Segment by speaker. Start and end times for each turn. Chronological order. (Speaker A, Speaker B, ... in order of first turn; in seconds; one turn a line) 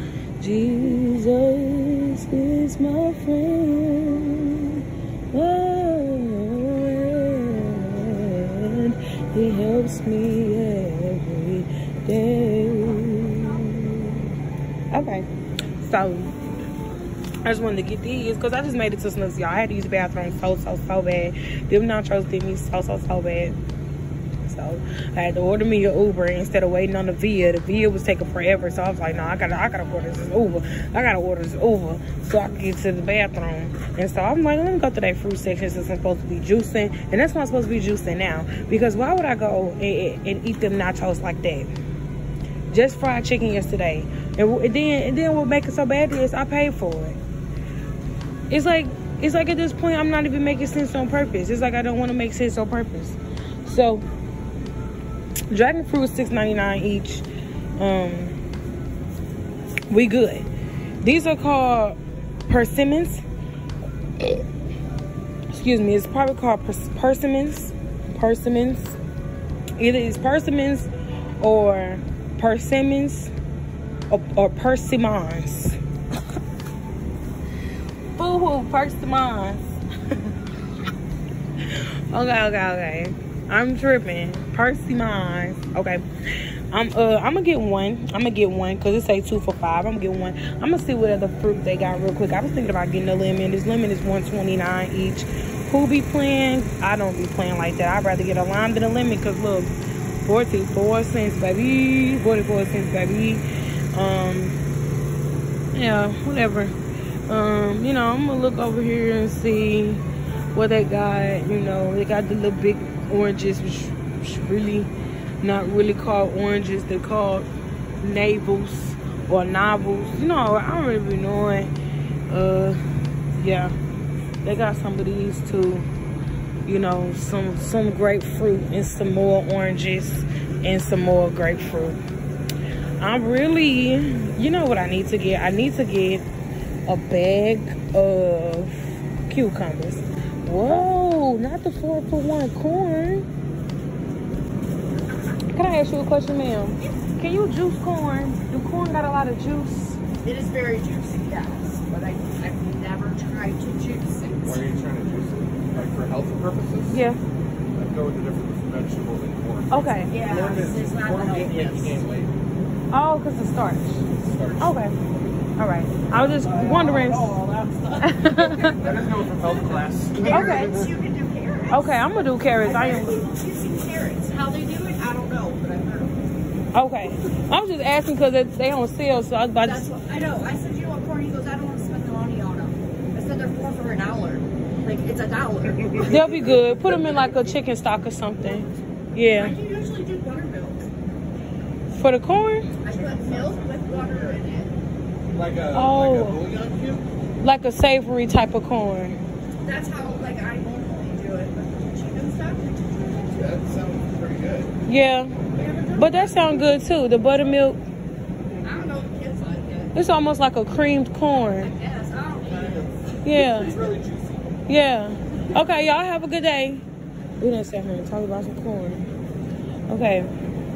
Speaker A: 0.4-4.8
Speaker A: 5.3-14.3
Speaker A: 14.9-15.3
Speaker A: 15.8-16.4
Speaker A: 17.4-23.6
Speaker A: 24.4-41.7
Speaker A: 42.7-47.2
Speaker A: 48.5-54.0
Speaker A: 55.5-57.2
Speaker A: 57.8-58.4
Speaker A: 59.9-60.5
Speaker A: 61.0-63.2
Speaker A: 65.5-69.0
Speaker A: 69.8-70.9
Speaker A: 71.4-73.3
Speaker A: 74.1-75.8
Speaker A: 78.2-79.8
Speaker A: 82.1-86.0
Speaker A: 86.7-99.7
Speaker A: 100.3-104.6
Speaker A: 105.8-106.7
Speaker A: 107.3-110.0
Speaker A: 110.5-117.5
Speaker A: 118.0-121.7
Speaker A: 122.3-122.8
Speaker A: 123.3-123.8
Speaker A: 124.4-125.8
Speaker A: 126.7-132.0
Speaker A: 133.0-136.2
Speaker A: 136.9-143.2
Speaker A: 145.5-150.0
Speaker B: 150.2-154.7
Speaker C: 154.4-157.0
Speaker A: 156.9-157.2
Speaker C: 157.8-162.3
Speaker A: 159.7-160.1
Speaker B: 160.1-162.0
Speaker A: 162.9-164.0
Speaker C: 164.2-164.8
Speaker A: 164.6-164.9
Speaker A: 165.6-167.4
Speaker C: 166.3-168.0
Speaker A: 168.0-168.8
Speaker C: 168.6-170.9
Speaker B: 169.5-172.0
Speaker A: 170.3-170.8
Speaker A: 171.7-173.2
Speaker B: 172.6-176.2
Speaker A: 176.7-179.8
Speaker B: 179.6-186.6
Speaker A: 186.1-189.6
Speaker B: 189.3-190.9
Speaker A: 191.9-192.7
Speaker B: 192.8-194.7
Speaker C: 193.0-194.3
Speaker C: 195.3-197.0
Speaker A: 195.7-196.4
Speaker A: 197.4-199.2
Speaker B: 199.6-203.5
Speaker C: 203.3-204.7
Speaker A: 204.9-205.3
Speaker B: 205.5-206.6
Speaker A: 206.0-207.8
Speaker B: 208.6-209.9
Speaker A: 209.9-211.7
Speaker B: 211.6-212.9
Speaker C: 212.5-214.5
Speaker A: 213.2-213.8
Speaker B: 213.6-213.9
Speaker A: 214.7-216.8
Speaker A: 217.4-219.1
Speaker A: 219.9-220.3